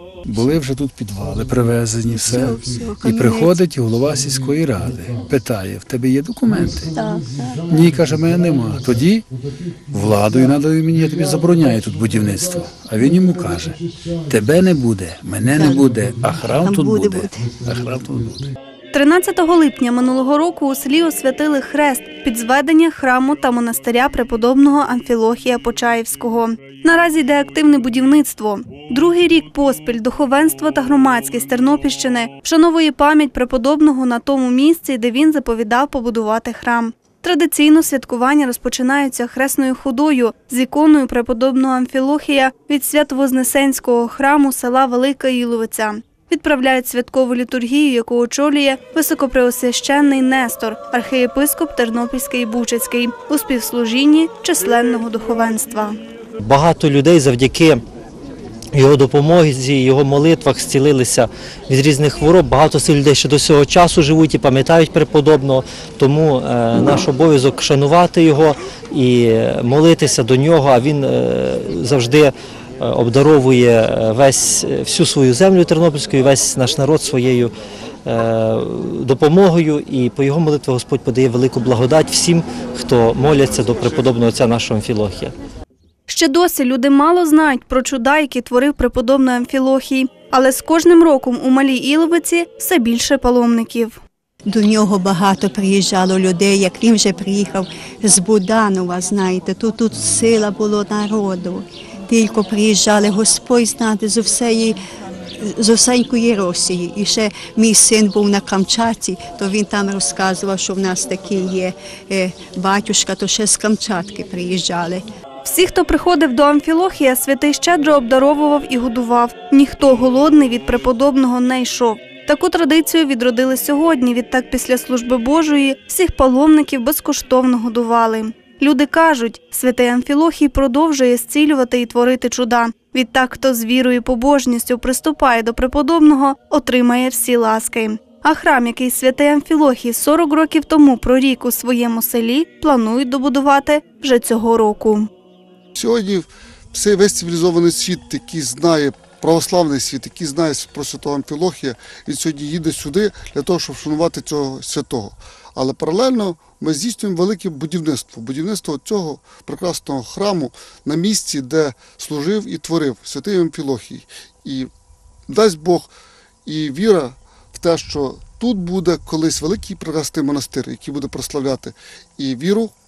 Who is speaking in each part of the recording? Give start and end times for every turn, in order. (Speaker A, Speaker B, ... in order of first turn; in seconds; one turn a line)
Speaker A: 0.3-7.0
Speaker B: 2.1-3.6
Speaker B: 6.9-7.6
Speaker A: 7.7-9.3
Speaker A: 9.9-18.5
Speaker B: 15.6-15.9
Speaker B: 16.6-17.5
Speaker C: 18.9-56.0
Speaker D: 56.4-57.8
Speaker D: 58.7-77.5
Speaker D: 78.0-85.3
Speaker C: 86.1-94.0
Speaker B: 94.5-104.8
Speaker B: 105.4-115.0
Speaker C: 115.5-145.1
Speaker E: 145.8-164.7
Speaker E: 165.3-165.9
Speaker E: 166.5-172.7